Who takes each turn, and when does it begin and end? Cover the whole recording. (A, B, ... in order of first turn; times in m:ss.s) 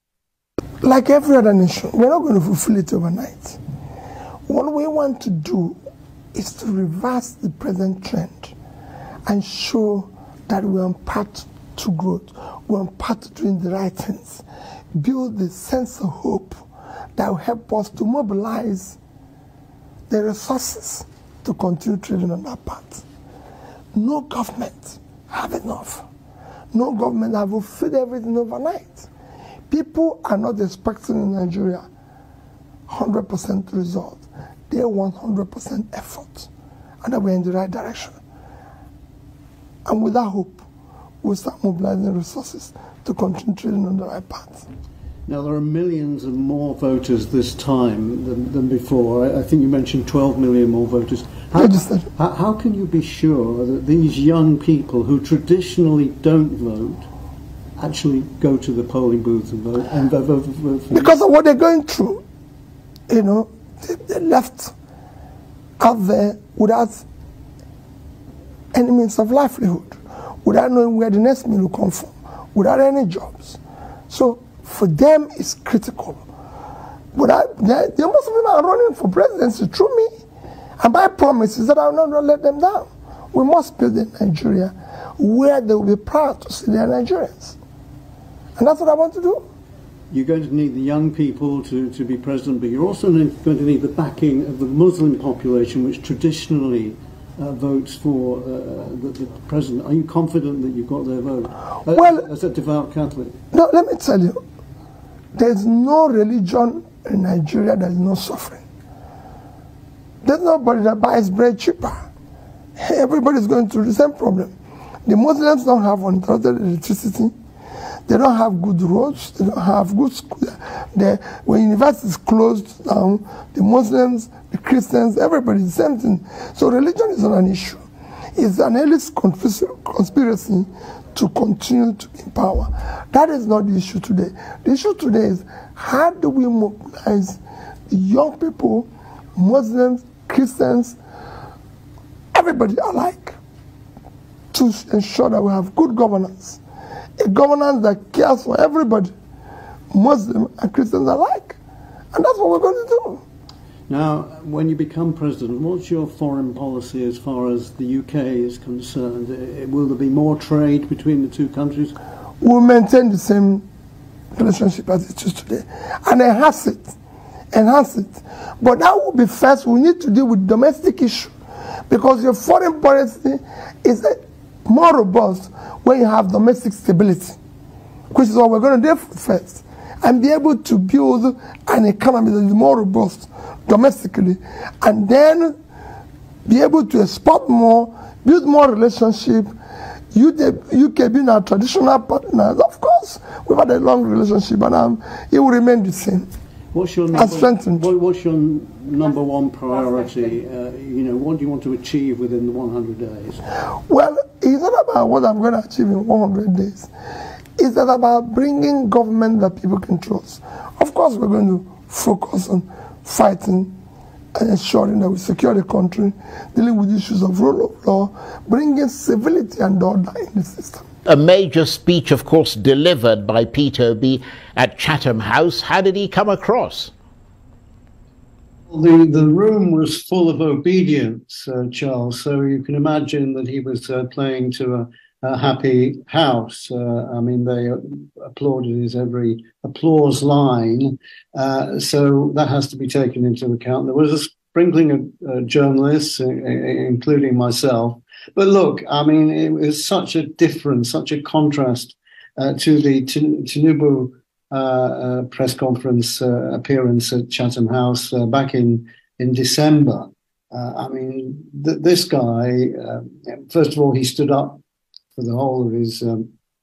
0:00.8-0:03.6 A
0:04.5-0:05.8 A
0:06.3-0:08.5 A
0:09.2-0:14.4 A
0:14.9-0:16.6 A
0:17.2-0:19.0 A
0:20.1-0:23.0 A
0:23.9-0:26.0 A
0:26.7-0:29.1 A
0:29.7-0:31.8 A
0:32.9-0:36.5 A
0:37.0-0:38.2 A
0:39.8-0:40.6 A
0:41.2-0:44.6 A
0:45.3-0:57.1 B
0:51.5-0:52.1 A
0:57.8-1:01.2 B
1:00.9-1:02.2 A
1:03.1-1:04.7 A
1:05.8-1:07.0 A
1:08.7-1:16.2 A
1:17.1-1:20.1 A
1:20.8-1:27.6 A
1:28.6-1:29.4 A
1:30.1-1:43.4 B
1:43.5-1:44.4 A
1:45.3-1:48.6 A
1:50.2-1:52.1 A
1:52.8-1:54.5 A
1:55.0-1:57.3 A
1:58.1-2:07.8 A
2:08.3-2:21.0 A
2:22.3-2:23.4 A
2:24.5-2:26.6 A
2:27.2-2:29.1 A
2:29.9-2:31.6 A
2:32.1-2:33.2 A
2:33.9-2:42.0 B
2:42.4-2:43.6 A
2:44.3-2:46.9 A
2:47.5-2:51.3 A
2:51.9-2:57.4 A
2:58.1-3:05.6 A
3:06.4-3:09.5 A
3:10.1-3:16.3 A
3:16.7-3:23.4 B
3:17.1-3:17.9 A
3:23.9-3:26.9 A
3:27.6-3:33.7 A
3:34.3-3:40.8 A
3:41.0-3:46.9 C
3:48.7-4:24.6 B
4:25.1-4:26.3 B